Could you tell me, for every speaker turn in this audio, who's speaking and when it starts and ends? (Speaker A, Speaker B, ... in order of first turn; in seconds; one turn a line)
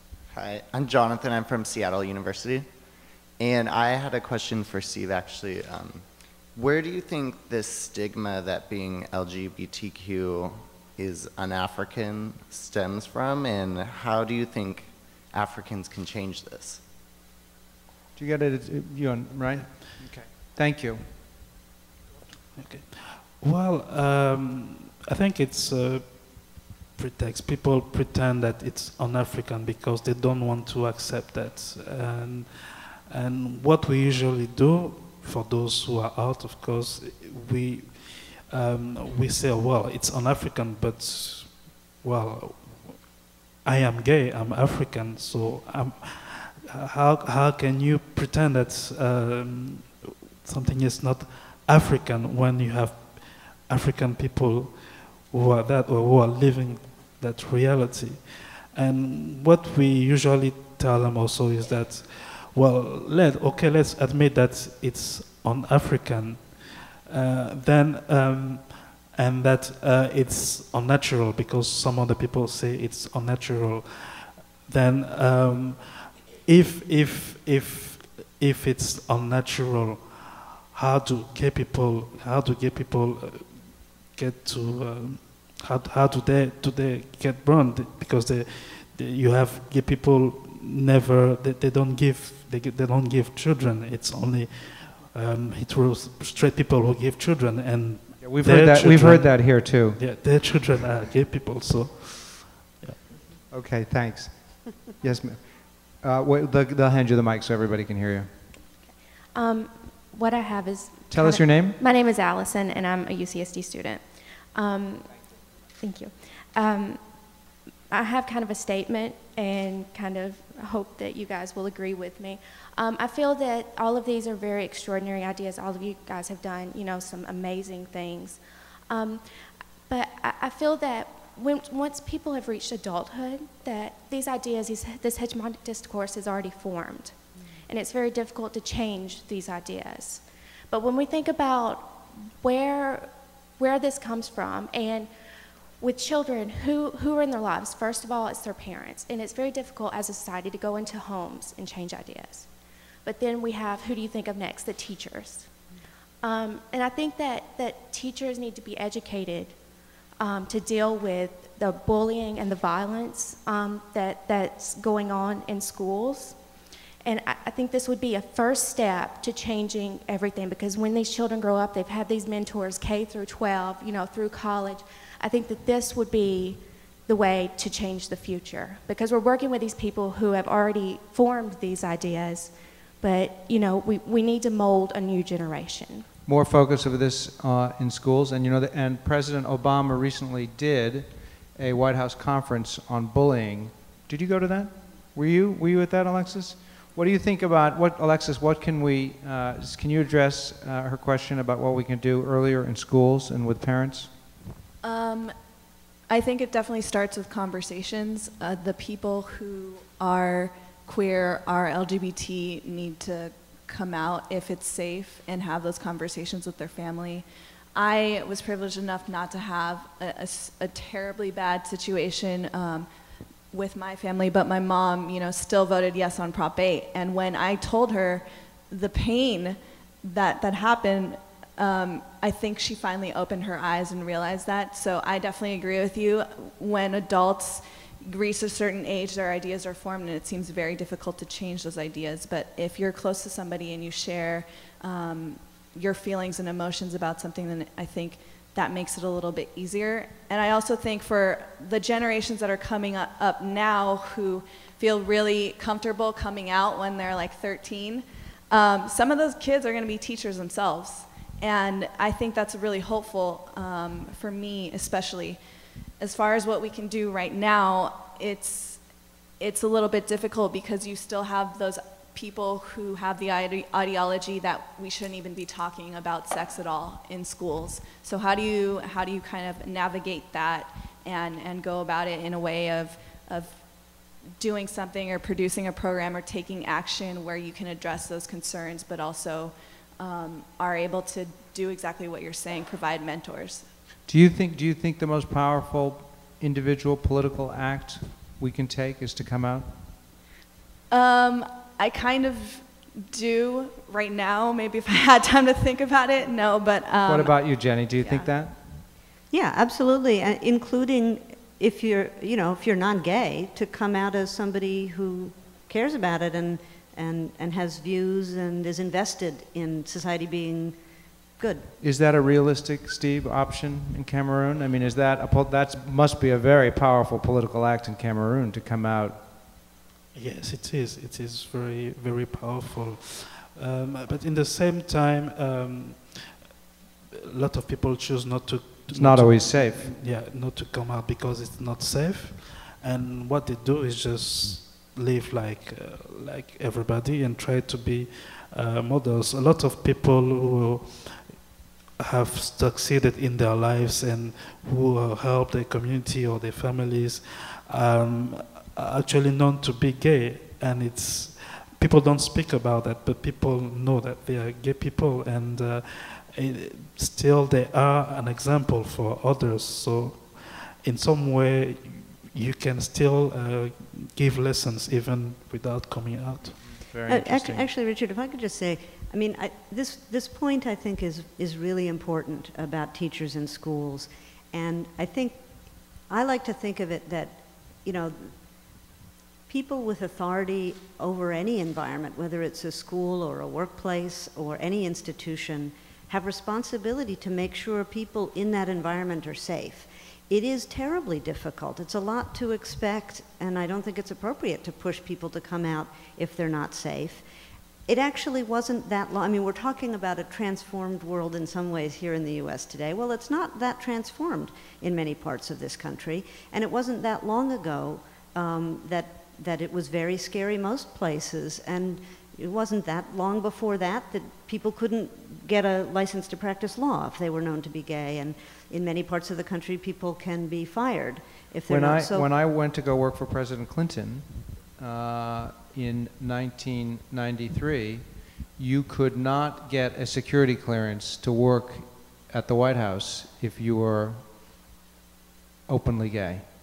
Speaker A: 0.3-2.7
Speaker A: 3.4-6.0
Speaker A: 6.5-16.8
Speaker B: 18.2-21.0
Speaker C: 22.5-43.1
Speaker C: 43.6-103.0
Speaker B: 98.2-100.0
Speaker B: 103.5-105.4
Speaker B: 106.0-108.3
Speaker D: 109.3-115.3
Speaker B: 111.1-111.8
Speaker D: 115.8-117.3
Speaker D: 117.9-145.1
Speaker D: 145.8-152.5
Speaker D: 153.0-155.5
Speaker D: 156.2-159.6
Speaker D: 160.2-166.5
Speaker D: 167.0-186.1
Speaker B: 186.3-204.1
Speaker E: 204.8-205.3
Speaker E: 206.1-222.9
Speaker E: 223.5-265.4
Speaker E: 266.0-268.8
Speaker E: 269.4-283.6
Speaker E: 284.4-293.7
Speaker B: 294.1-299.7
Speaker E: 300.9-307.4
Speaker B: 307.1-308.6
Speaker E: 308.0-308.3
Speaker F: 309.3-320.8
Speaker F: 321.4-321.7
Speaker B: 321.8-329.2
Speaker C: 330.1-336.4
Speaker C: 337.2-351.4
Speaker B: 338.9-339.9
Speaker C: 352.0-376.6
Speaker B: 376.6-377.7
Speaker F: 377.1-385.4
Speaker F: 386.1-388.4
Speaker F: 389.5-407.2
Speaker F: 407.9-432.3
Speaker B: 431.7-438.1
Speaker B: 438.6-444.2
Speaker B: 445.7-446.5